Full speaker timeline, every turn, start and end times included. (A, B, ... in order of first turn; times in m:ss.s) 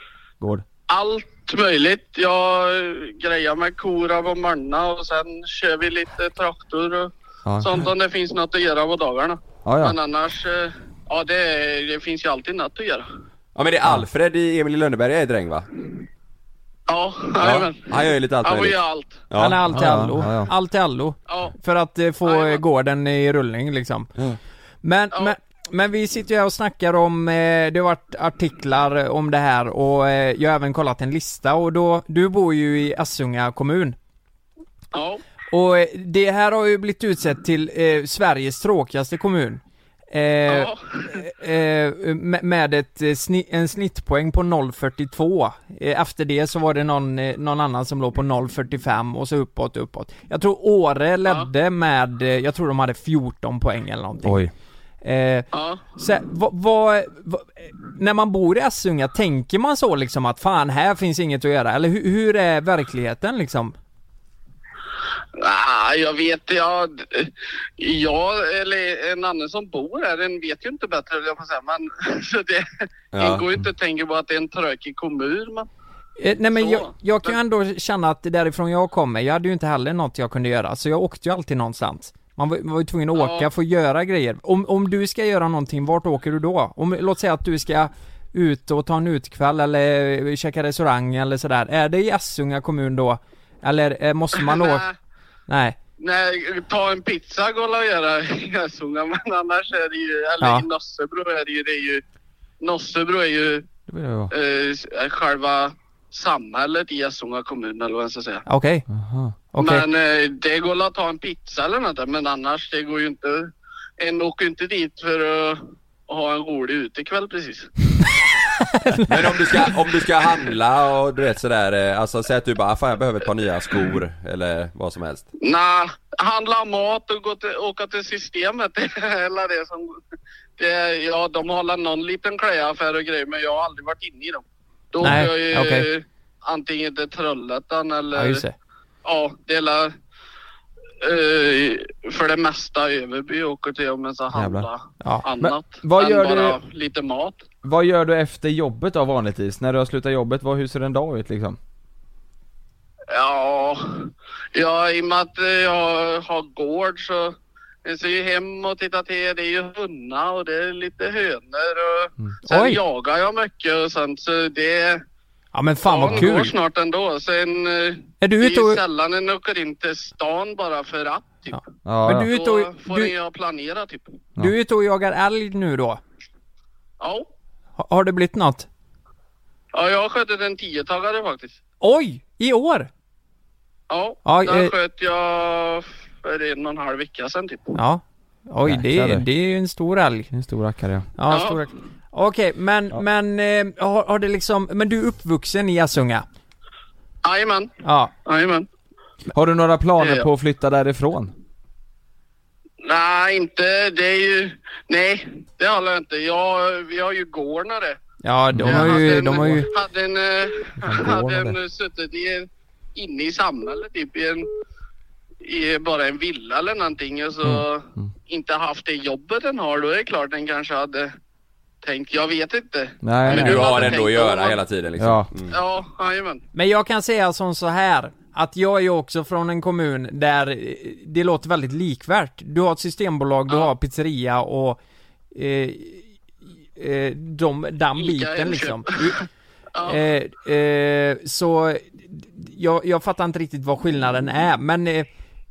0:00.4-0:00.6 A
0:00.9-0:13.1 B
0:07.4-0:07.9 A
0:09.6-0:10.0 A
0:13.6-0:15.7 C
0:16.9-0:19.2 B
0:17.4-0:18.8 C
0:19.3-0:19.8 C
0:19.4-0:24.1 D
0:19.7-0:20.5 A
0:21.3-0:21.5 B
0:22.2-0:22.6 B
0:24.8-0:34.0 D
0:34.9-0:35.2 B
0:35.5-0:54.4 D
0:40.5-0:41.2 B
0:54.2-0:54.5 A
0:55.0-1:03.8 D
0:55.5-0:55.8 B
1:05.4-1:15.7 B
1:13.1-1:13.4 C
1:16.2-1:34.9 D
1:16.6-1:17.4 B
1:23.1-1:23.5 B
1:34.4-1:34.9 B
1:35.5-1:35.8 D
1:36.0-1:42.0 B
1:40.4-1:40.7 D
1:42.6-1:43.7 B
1:43.9-1:44.3 A
1:44.3-1:48.4 B
1:48.5-1:48.8 D
1:48.9-1:49.4 A
1:49.5-1:49.8 D
1:49.6-1:57.7 B
1:58.6-1:59.5 D
1:59.1-2:05.3 C
2:05.4-2:10.0 B
2:10.6-2:18.4 B
2:15.0-2:15.9 D
2:18.2-2:18.5 D
2:19.0-2:19.9 B
2:21.0-2:27.4 B
2:24.3-2:24.7 A
2:25.4-2:26.6 A
2:27.6-2:31.6 A
2:33.1-2:45.0 B
2:42.5-2:42.8 D
2:45.5-2:46.5 D
2:45.9-2:51.6 B
2:48.2-2:48.8 D
2:51.5-2:53.1 D
2:51.8-2:52.3 A
2:52.3-2:54.2 B
2:54.4-2:56.0 D
2:57.0-2:57.3 B
2:57.8-2:58.7 D
2:59.7-3:01.6 B
3:01.8-3:02.9 D
3:03.9-3:07.8 B
3:04.2-3:04.7 D
3:07.8-3:10.3 D
3:08.6-3:09.3 A
3:10.3-3:11.1 A
3:11.2-3:16.2 D
3:11.3-3:11.6 B
3:17.2-3:17.7 B
3:17.8-3:18.1 D
3:18.3-3:18.7 B
3:19.3-3:21.3 A
3:20.0-3:20.2 B
3:22.8-3:28.0 B
3:28.2-3:29.7 D
3:28.5-3:29.6 A
3:28.6-3:34.5 B
3:30.8-3:31.6 A
3:35.4-3:41.1 B
3:41.8-3:44.6 B
3:43.0-3:43.8 A
3:43.3-3:45.5 C
3:45.0-3:45.3 A
3:45.5-3:46.4 B
3:46.5-3:54.8 D
3:55.3-3:56.1 D
3:56.8-3:59.2 D
3:58.0-3:59.2 B
3:59.8-4:00.0 B
3:59.8-4:05.1 D